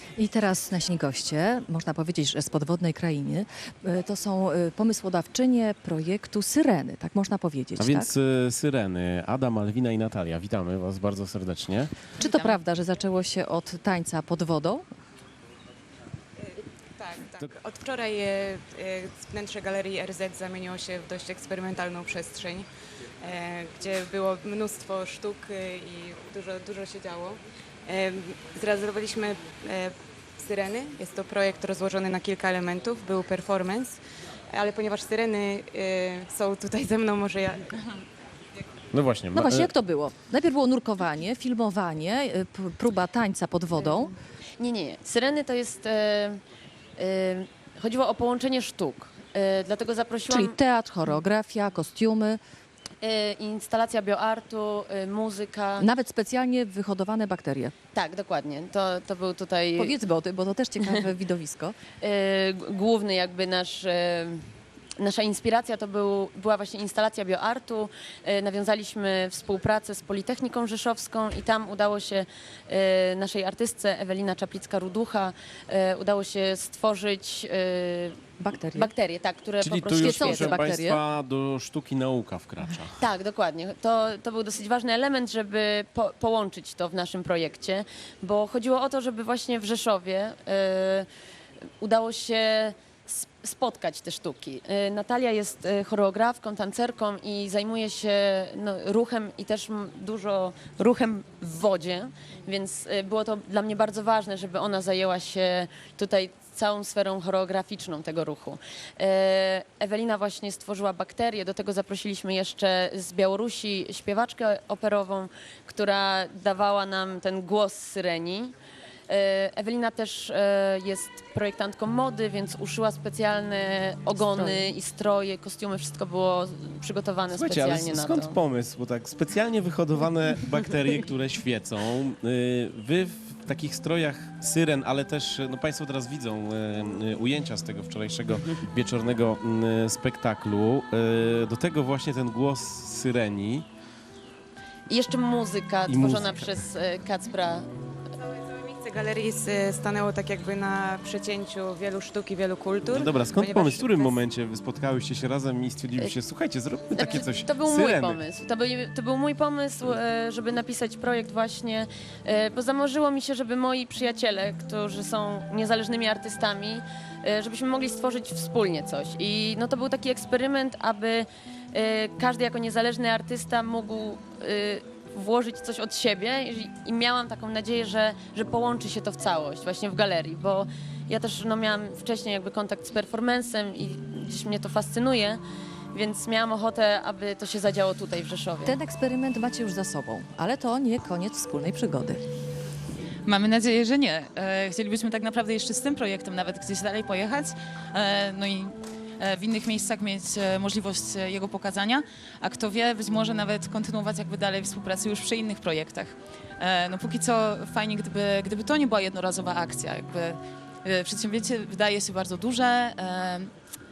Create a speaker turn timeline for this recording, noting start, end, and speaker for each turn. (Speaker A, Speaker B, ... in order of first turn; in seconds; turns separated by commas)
Speaker A: 0.2-8.1, Speaker B: 7.8-11.9, Speaker C: 12.2-12.6, Speaker A: 12.2-14.9, Speaker D: 16.4-22.7, Speaker D: 23.2-34.0, Speaker D: 34.5-38.0, Speaker B: 38.9-39.7, Speaker A: 39.3-44.1, Speaker E: 44.6-46.4, Speaker E: 47.0-50.6, Speaker A: 50.3-52.4, Speaker E: 53.0-55.9, Speaker A: 55.8-57.7, Speaker E: 58.0-59.9, Speaker A: 59.8-61.8, Speaker E: 62.0-64.4, Speaker E: 65.0-78.2, Speaker A: 78.4-78.9, Speaker E: 78.7-80.7, Speaker B: 79.6-83.0, Speaker A: 80.0-81.0, Speaker E: 83.0-91.1, Speaker E: 91.8-118.5, Speaker E: 119.1-128.4, Speaker A: 124.2-124.7, Speaker B: 127.3-143.7, Speaker E: 144.9-147.7, Speaker B: 145.9-146.5, Speaker D: 148.3-154.2, Speaker B: 152.9-158.2, Speaker E: 156.9-185.4, Speaker E: 185.9-188.8, Speaker A: 188.6-192.2, Speaker C: 193.2-213.5